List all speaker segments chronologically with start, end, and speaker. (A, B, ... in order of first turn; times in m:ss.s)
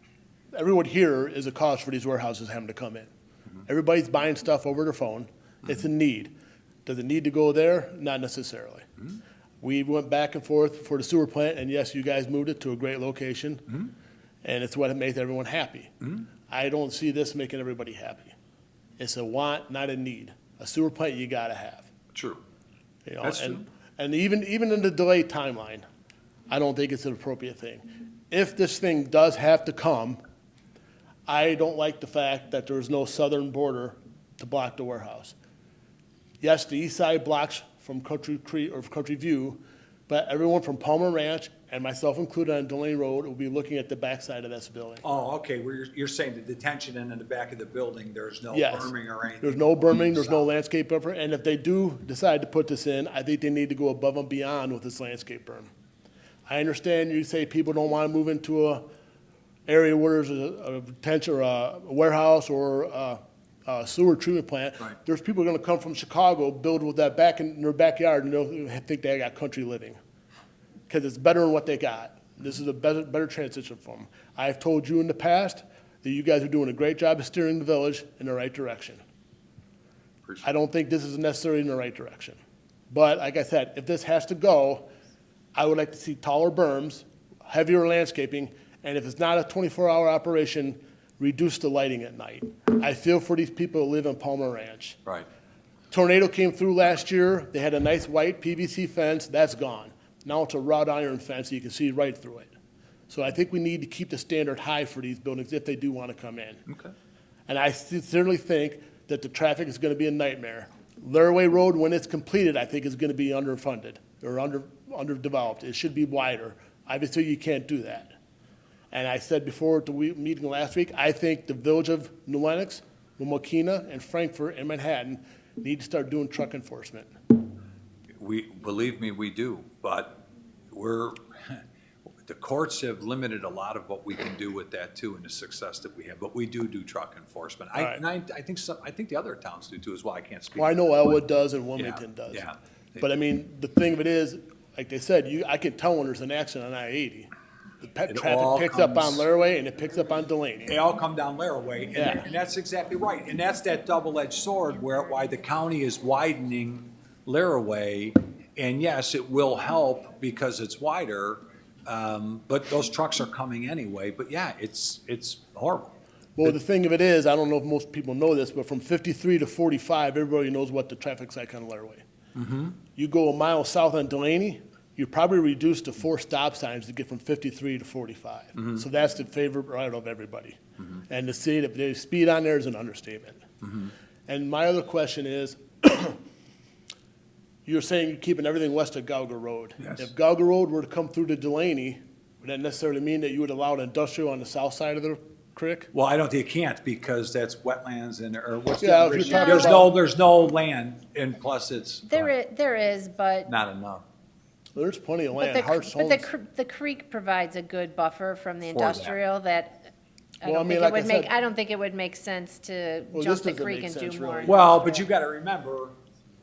0:00.5-0:03.1 A
0:03.7-0:06.3 A
0:06.8-0:08.9 A
0:09.6-0:13.8 A
0:14.4-0:15.9 A
0:16.5-0:18.3 A
0:19.0-0:21.9 A
0:22.1-0:22.4 B
0:23.1-0:25.8 A
0:23.2-0:23.6 B
0:26.5-0:30.2 A
0:31.3-0:35.4 A
0:36.4-0:45.0 A
0:45.0-0:50.5 B
0:48.5-0:55.7 A
0:56.5-0:58.8 A
0:59.7-1:10.0 A
1:10.9-1:19.0 A
1:20.2-1:20.5 B
1:20.4-1:22.4 A
1:22.9-1:24.9 A
1:25.6-1:35.0 A
1:35.9-1:42.5 A
1:43.1-1:46.6 A
1:46.7-1:46.9 B
1:47.5-1:58.2 A
1:58.9-2:07.1 A
2:08.2-2:10.2 B
2:10.7-2:11.6 B
2:12.2-2:21.2 B
2:17.7-2:18.0 A
2:20.6-2:22.4 A
2:21.8-2:23.1 B
2:23.0-2:27.3 A
2:27.8-2:30.8 A
2:28.1-2:29.3 B
2:30.7-2:46.6 B
2:31.9-2:32.2 A
2:46.4-2:52.0 A
2:52.4-2:52.8 B
2:53.0-3:03.4 A
2:58.6-2:58.8 B
3:04.3-3:06.2 A
3:07.6-3:15.9 A
3:09.8-3:10.1 B
3:15.9-3:22.3 B
3:18.8-3:19.9 A
3:19.2-3:19.9 C
3:22.1-3:23.5 C
3:23.5-3:24.0 B
3:24.8-3:26.3 A
3:25.4-3:29.8 C
3:28.7-3:29.2 B
3:30.4-3:34.7 C
3:30.4-3:31.3 A
3:33.1-3:35.0 A
3:34.4-3:35.9 B